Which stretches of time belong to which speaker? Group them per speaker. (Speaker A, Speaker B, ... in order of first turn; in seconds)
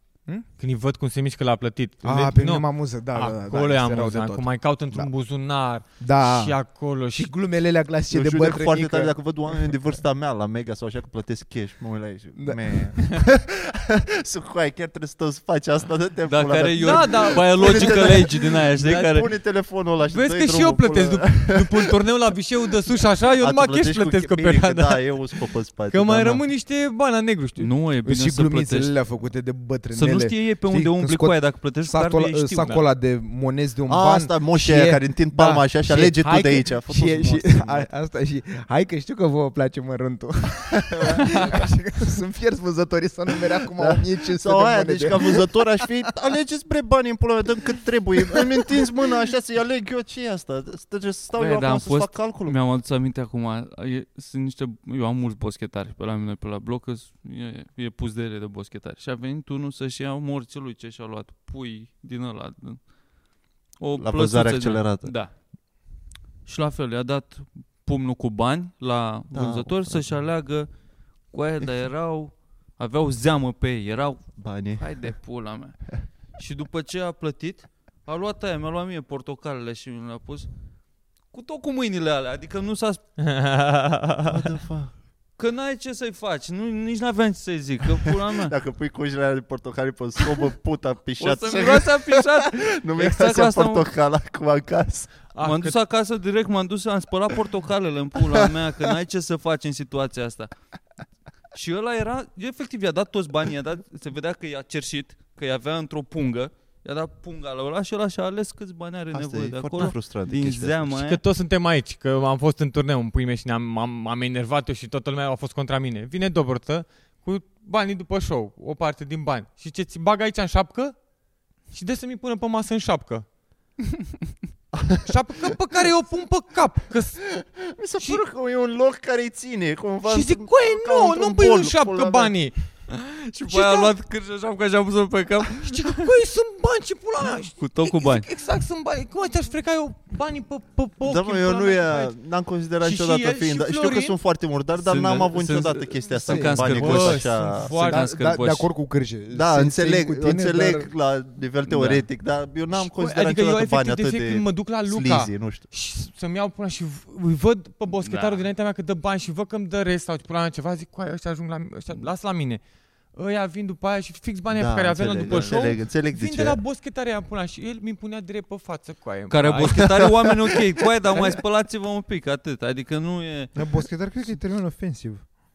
Speaker A: 0.6-7.3, 16.7-19.3, 20.1-25.2, 25.9-27.7, 83.2-84.3, 95.3-95.7, 110.9-121.0, 121.7-123.2, 125.0-127.3, 130.0-132.6, 133.5-133.9, 135.6-142.1, 142.8-144.1, 146.7-148.0, 152.7-162.6, 163.1-169.8
Speaker B: 2.0-5.1, 6.0-6.6, 7.1-9.7, 12.3-13.0, 28.0-45.9, 48.2-48.8, 146.2-146.8, 147.8-150.9, 173.6-175.2
Speaker C: 8.1-21.9, 23.4-26.4, 33.9-37.9, 40.9-41.4, 43.8-52.6, 64.0-65.1, 69.3-70.1, 74.4-75.1, 84.2-84.9, 88.4-95.2, 109.1-110.8, 124.8-125.1, 127.3-132.3, 141.0-147.7, 149.3-155.6, 164.5-166.6, 169.7-170.5
Speaker D: 16.3-19.3, 27.6-28.9, 29.9-32.8, 51.3-62.9, 63.8-65.3, 66.5-70.7, 71.3-80.5, 81.3-83.0, 85.4-88.5, 91.2-93.8, 95.4-100.5, 101.5-111.2, 132.9-136.0, 137.6-138.2, 144.7-148.7, 151.7-152.0, 158.0-158.4, 165.2-165.6, 169.3-173.5